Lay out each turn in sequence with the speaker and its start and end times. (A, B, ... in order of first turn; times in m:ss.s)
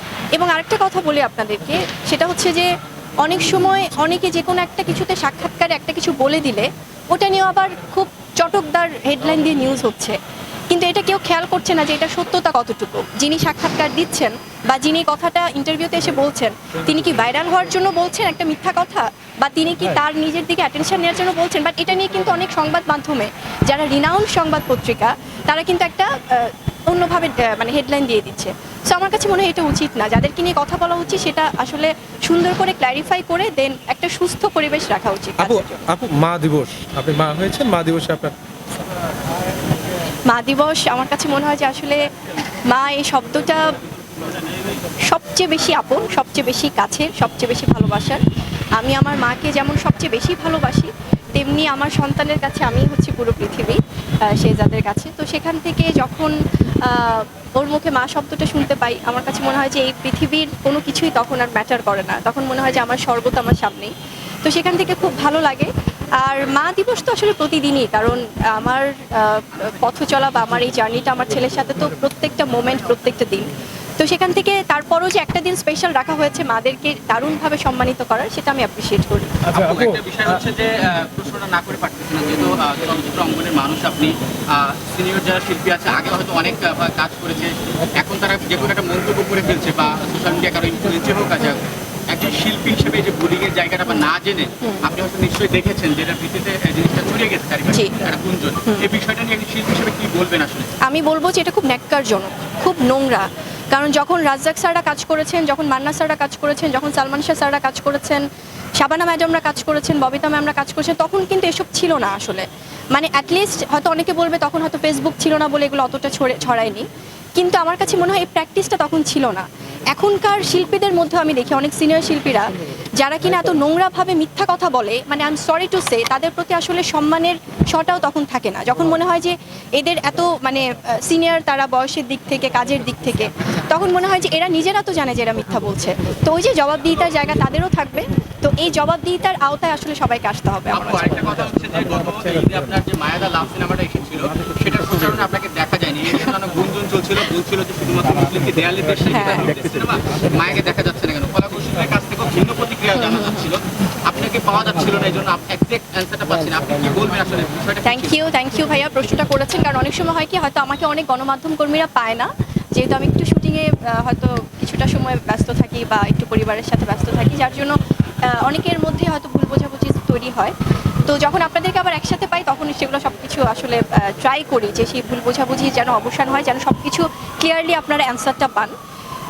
0:00.3-0:10.2 A
0:10.7-0:35.8 A
0:35.4-0:38.4 B
0:40.3-0:42.1 A
0:42.7-0:43.8 A
0:45.0-0:48.2 A
0:48.8-1:19.4 A
1:19.5-1:40.7 C
1:19.6-1:19.9 B
1:37.7-1:38.0 A
1:40.8-1:48.2 A
1:48.8-2:21.3 A
2:20.7-2:38.2 C
2:29.1-2:29.5 A
2:33.0-2:33.5 A
2:37.8-2:50.5 A
2:51.0-2:58.7 A